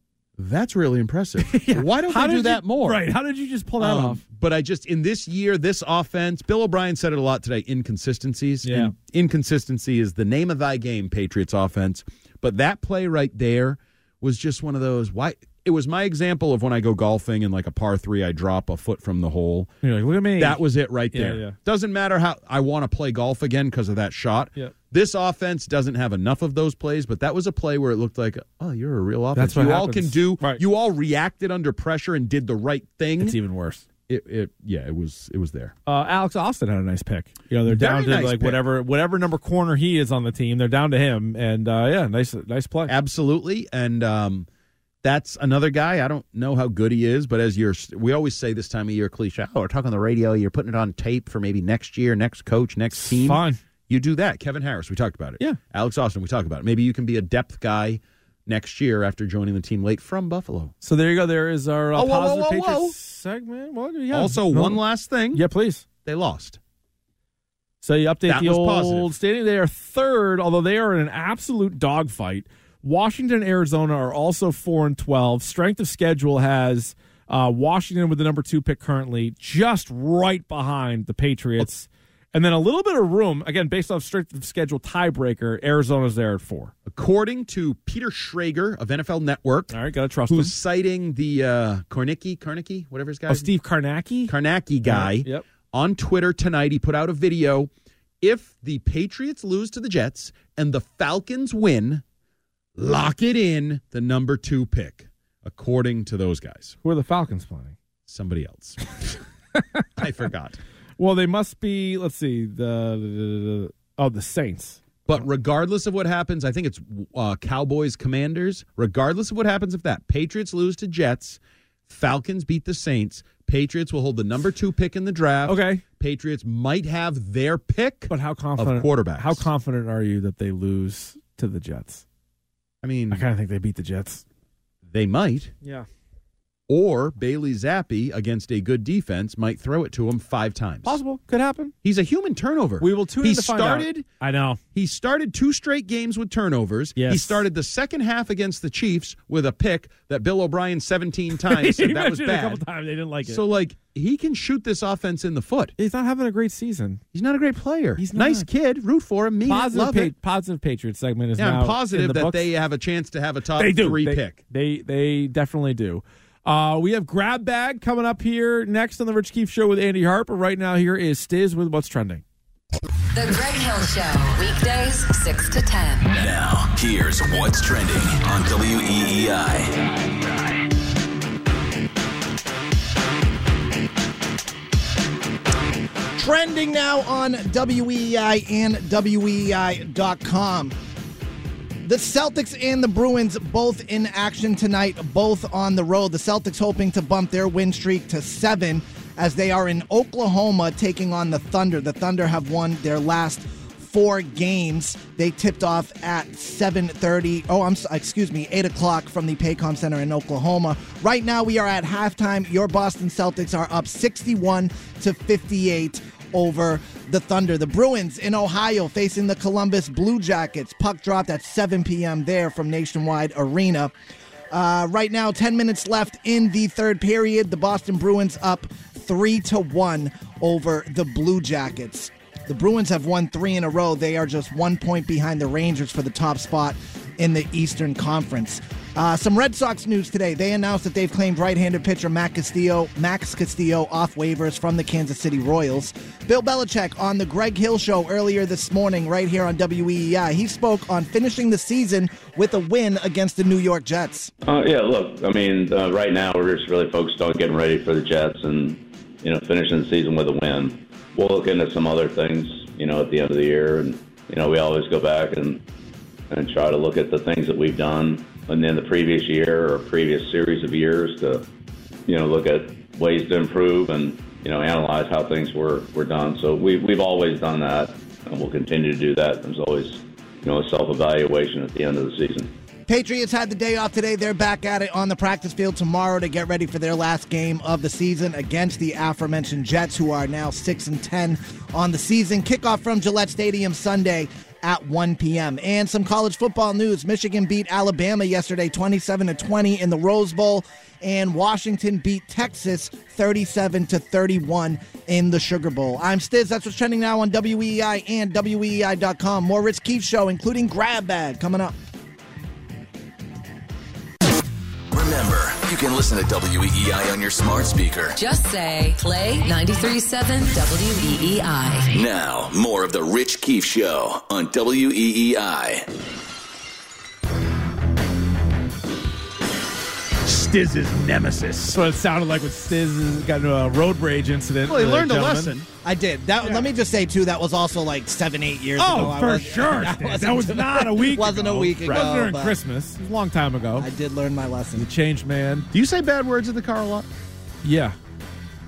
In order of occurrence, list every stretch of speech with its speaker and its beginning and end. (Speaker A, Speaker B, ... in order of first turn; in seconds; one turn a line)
Speaker A: 0.4-3.0
Speaker B: 1.4-4.2
Speaker A: 3.8-19.7
Speaker B: 8.6-8.9
Speaker B: 19.8-21.6
Speaker A: 20.4-33.4
Speaker B: 29.4-30.6
Speaker B: 33.2-33.8
Speaker A: 34.1-35.8
Speaker B: 35.9-42.9
Speaker A: 37.6-38.7
Speaker A: 42.9-44.5
Speaker A: 45.0-60.7
Speaker B: 52.9-53.6
Speaker B: 60.8-65.8
Speaker A: 61.9-63.0
Speaker A: 64.1-65.4
Speaker A: 66.0-66.6
Speaker B: 67.8-86.7
Speaker A: 68.3-69.1
Speaker A: 86.9-89.8
Speaker B: 89.7-90.5
Speaker A: 90.3-93.5
Speaker B: 93.3-95.5
Speaker A: 94.3-102.0
Speaker A: 102.8-106.8
Speaker B: 106.8-107.8
Speaker A: 108.1-109.2
Speaker B: 109.6-109.8
Speaker A: 110.0-110.6
Speaker B: 111.0-114.8
Speaker A: 115.1-129.5
Speaker B: 125.5-125.8
Speaker B: 128.1-132.0
Speaker A: 132.8-133.2
Speaker B: 133.1-134.2
Speaker A: 134.9-135.5
Speaker B: 135.6-135.9
Speaker A: 136.7-141.0
Speaker B: 140.8-141.7
Speaker A: 141.8-144.1
Speaker B: 142.8-144.6
Speaker A: 144.8-152.7
Speaker B: 147.0-147.4
Speaker B: 151.3-153.4
Speaker A: 153.2-155.7
Speaker B: 155.8-157.0
Speaker A: 157.1-160.1
Speaker B: 158.0-158.5
Speaker B: 159.5-162.4
Speaker A: 161.4-164.4
Speaker B: 163.6-172.2
Speaker C: 173.2-176.1
Speaker D: 176.1-179.9
Speaker E: 186.2-190.8
Speaker E: 191.8-223.9
Speaker E: 224.5-254.3
Speaker F: 254.4-265.6
Speaker F: 266.3-271.5
Speaker F: 272.1-282.5
Speaker E: 282.9-311.8
Speaker D: 314.9-318.2
Speaker C: 318.1-322.0
Speaker D: 321.9-325.9
Speaker A: 330.2-331.8
Speaker B: 331.7-335.5
Speaker A: 334.6-335.7
Speaker E: 335.8-342.6
Speaker B: 336.4-336.7
Speaker B: 338.8-343.9
Speaker A: 341.8-342.2
Speaker E: 343.8-344.9
Speaker B: 344.8-345.7
Speaker A: 345.7-347.1
Speaker B: 347.6-348.0